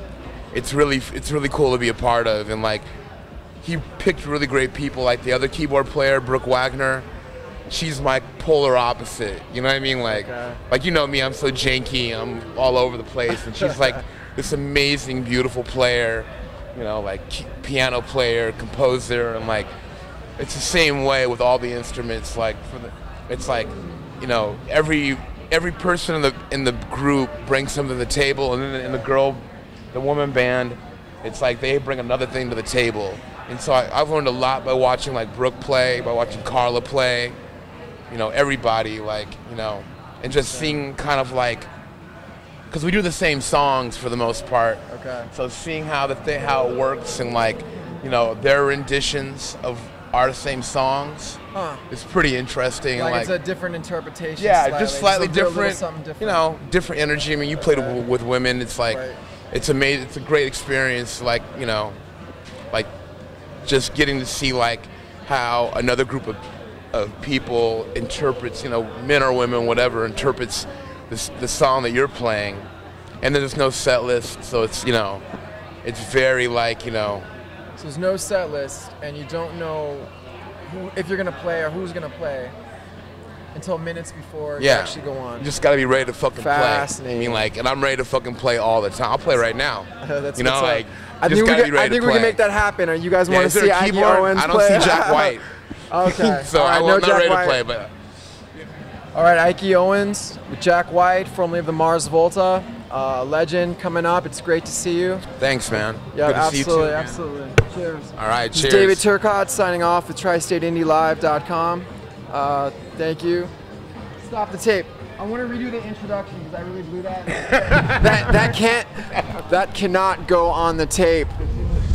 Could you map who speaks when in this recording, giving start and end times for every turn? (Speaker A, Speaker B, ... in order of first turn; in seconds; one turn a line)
Speaker A: 0.5-2.9
Speaker A: 3.6-7.1
Speaker A: 7.7-19.7
Speaker B: 10.1-10.6
Speaker A: 20.4-37.4
Speaker A: 38.1-41.7
Speaker B: 40.5-40.8
Speaker A: 42.7-51.4
Speaker B: 44.9-45.3
Speaker B: 51.5-51.9
Speaker A: 51.9-53.3
Speaker B: 53.0-56.5
Speaker A: 54.4-62.0
Speaker B: 57.6-58.0
Speaker B: 58.9-59.2
Speaker A: 63.6-66.4
Speaker A: 66.9-72.7
Speaker A: 73.2-75.2
Speaker A: 75.8-77.3
Speaker B: 77.8-80.1
Speaker B: 80.7-82.5
Speaker B: 83.5-85.5
Speaker A: 84.6-92.4
Speaker B: 86.4-87.5
Speaker B: 90.0-95.4
Speaker A: 93.3-95.5
Speaker B: 95.9-97.6
Speaker A: 96.0-97.9
Speaker B: 99.1-105.3
Speaker A: 105.4-107.2
Speaker B: 106.1-113.5
Speaker A: 108.2-109.0
Speaker B: 114.2-121.3
Speaker A: 117.5-118.5